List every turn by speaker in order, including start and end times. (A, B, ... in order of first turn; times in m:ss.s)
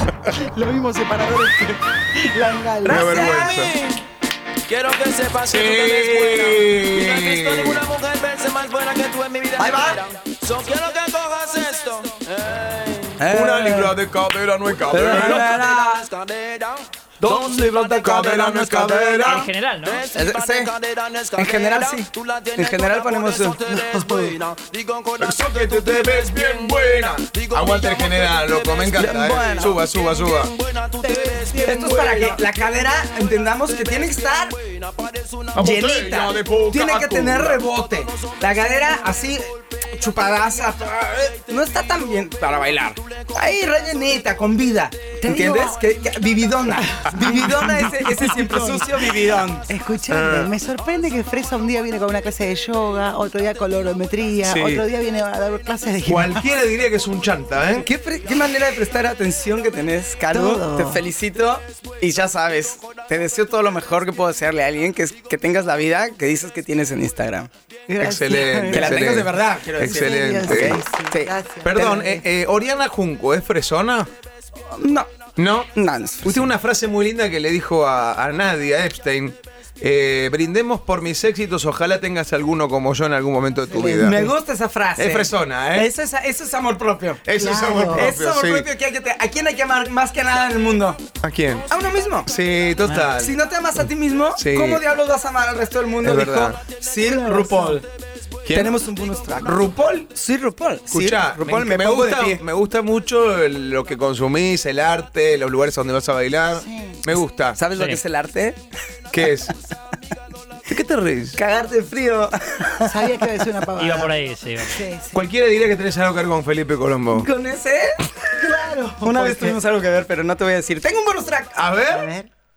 0:00.3-0:03.5 A
0:02.8-0:03.7 B
0:02.9-0:03.8 C
0:03.6-0:04.0 D
0:04.7-0:13.2 D
0:05.4-0:07.9 C
0:09.6-0:10.0 C
0:13.2-0:14.0 B
0:13.3-0:15.6 C
0:14.9-0:18.9 D
0:14.9-0:16.1 B
0:17.2-0:19.5 B
0:18.0-0:19.5 C
0:19.2-0:20.1 E
0:19.8-0:32.4 D
0:20.1-0:20.7 B
0:21.4-0:23.6 B
0:23.7-0:24.4 A
0:25.2-0:30.5 C
0:29.0-0:29.8 B
0:31.0-0:32.1 A
0:31.6-0:34.6 B
0:33.6-0:34.0 D
0:34.6-0:35.7 D
0:35.6-0:37.6 C
0:35.6-0:49.7 B
0:37.5-0:38.4 D
0:45.2-0:45.8 A
0:46.7-0:49.0 A
0:49.7-0:56.5 A
0:50.1-0:50.5 C
0:54.4-0:54.8 C
0:56.1-0:57.9 C
0:57.8-1:07.5 B
1:00.3-1:01.1 A
1:07.9-1:09.2 A
1:08.0-1:10.8 C
1:08.0-1:11.9 B
1:09.8-1:12.2 A
1:11.6-1:14.1 C
1:14.7-1:15.1 B
1:15.4-1:15.7 C
1:15.7-1:16.5 B
1:16.2-1:24.3 C
1:23.7-1:24.3 A
1:23.8-1:27.2 B
1:25.0-1:25.9 C
1:27.3-1:28.7 C
1:27.3-1:28.2 A
1:27.9-1:31.0 B
1:31.2-1:31.7 C
1:31.7-1:32.3 B
1:32.3-1:33.4 C
1:32.8-1:33.1 E
1:33.2-1:37.9 B
1:34.4-1:34.8 C
1:36.0-1:36.6 C
1:37.0-1:37.8 A
1:38.4-1:38.8 C
1:38.5-1:42.4 B
1:39.4-1:39.8 C
1:40.9-1:47.6 C
1:46.5-1:47.2 A
1:47.5-1:48.6 B
1:47.8-1:48.0 E
1:49.1-1:49.5 C
1:50.7-1:51.4 C
1:51.4-1:53.1 B
1:52.9-1:55.2 A
1:53.8-1:54.8 E
1:55.1-1:57.3 C
1:57.1-1:58.0 B
1:58.4-1:59.6 A
1:59.0-2:01.7 B
2:01.6-2:02.1 C
2:01.9-2:02.3 A